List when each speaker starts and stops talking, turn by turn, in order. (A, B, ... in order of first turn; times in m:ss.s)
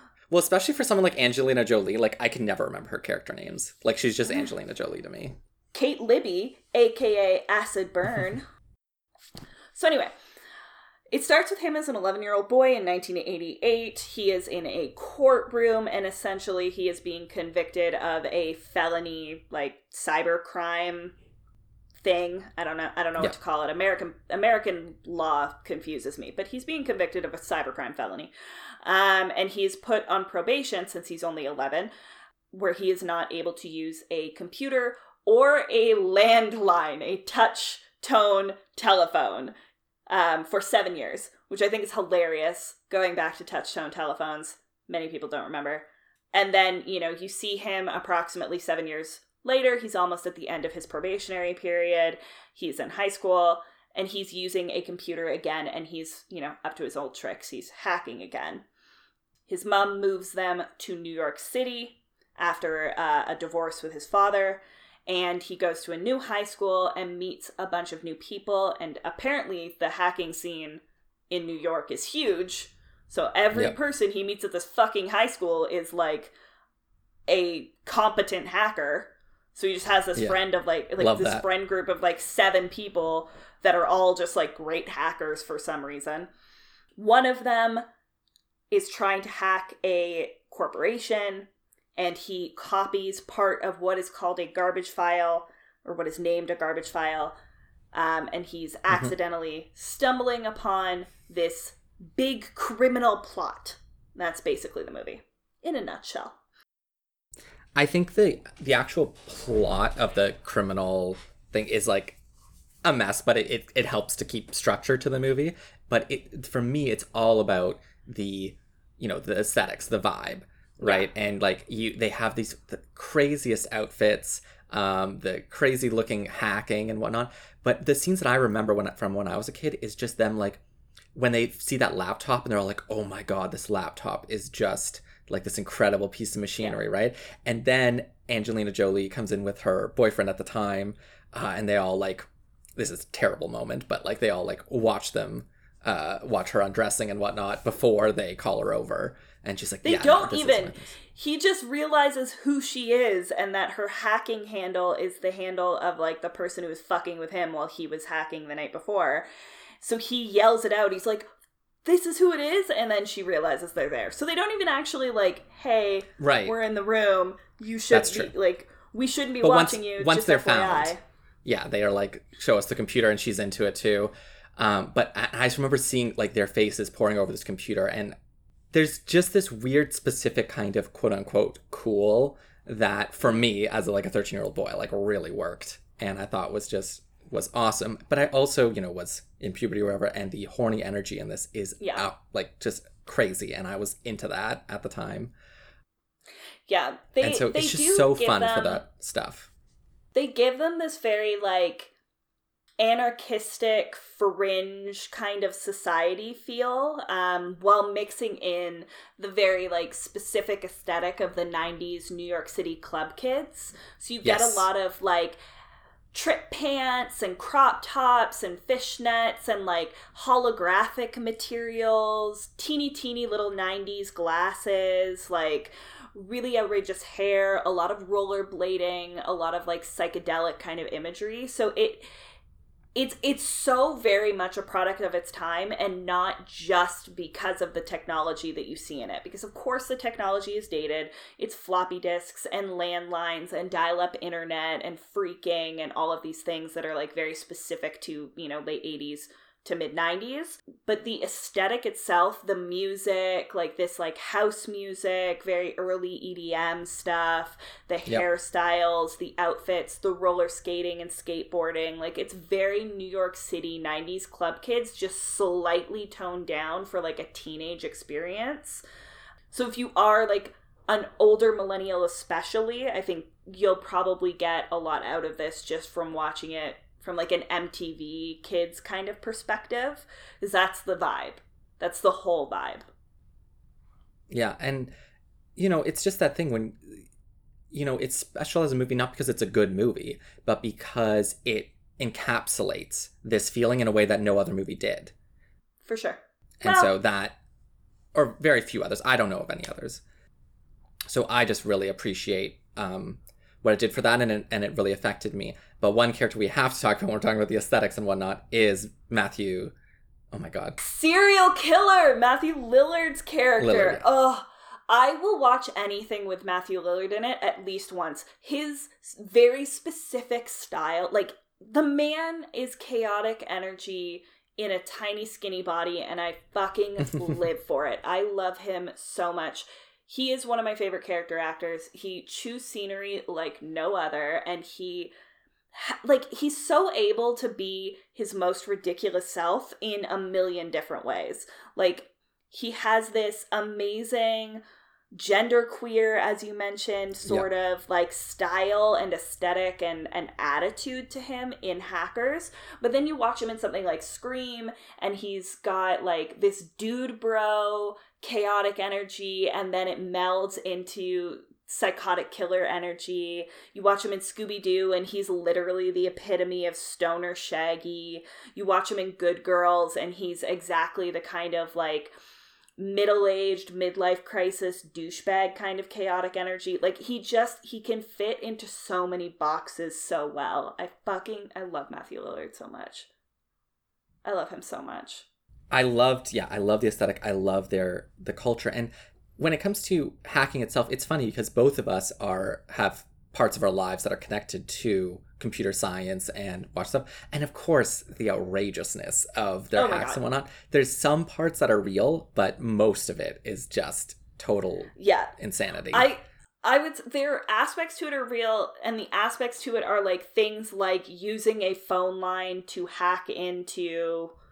0:00.3-0:05.4 A
0:05.7-0:08.5 B
0:09.7-0:10.1 B
0:11.1-0:21.1 B
0:22.0-0:28.3 B
0:28.8-0:31.9 B
0:32.5-0:39.5 B
0:40.1-0:58.6 B
0:59.5-1:16.3 B
1:17.3-1:26.3 B
1:21.0-1:21.5 A
1:27.0-1:27.8 B
1:28.7-1:37.4 B
1:37.9-1:46.4 B
1:47.8-1:52.2 A
1:52.8-2:10.6 A
2:00.8-2:01.1 B
2:11.1-2:31.0 A
2:29.8-2:39.2 B
2:39.8-2:41.3 B
2:41.8-2:51.0 B
2:46.2-2:46.6 A
2:47.9-2:48.3 A
2:49.4-2:58.2 A
2:58.7-3:15.3 A
3:11.8-3:12.1 B
3:16.7-3:18.8 B
3:17.2-3:19.5 A
3:20.1-3:21.9 B
3:22.8-3:35.4 B
3:34.2-3:34.7 A
3:36.1-3:52.1 B
3:52.9-4:28.8 B
4:29.5-4:42.8 B
4:44.3-4:44.9 A
4:45.6-4:47.0 A
4:47.7-4:55.1 A
4:55.8-4:56.9 B
4:56.6-4:57.4 A
4:58.1-5:00.0 A
5:01.1-5:09.7 A
5:10.3-5:10.8 A
5:10.8-5:35.1 B
5:13.6-5:14.0 A
5:35.7-5:44.6 B
5:45.1-6:12.1 B
6:12.8-6:23.1 B
6:24.2-6:25.2 B
6:25.7-6:46.1 A
6:39.7-6:40.2 B
6:45.0-6:45.3 B
6:45.9-6:54.3 B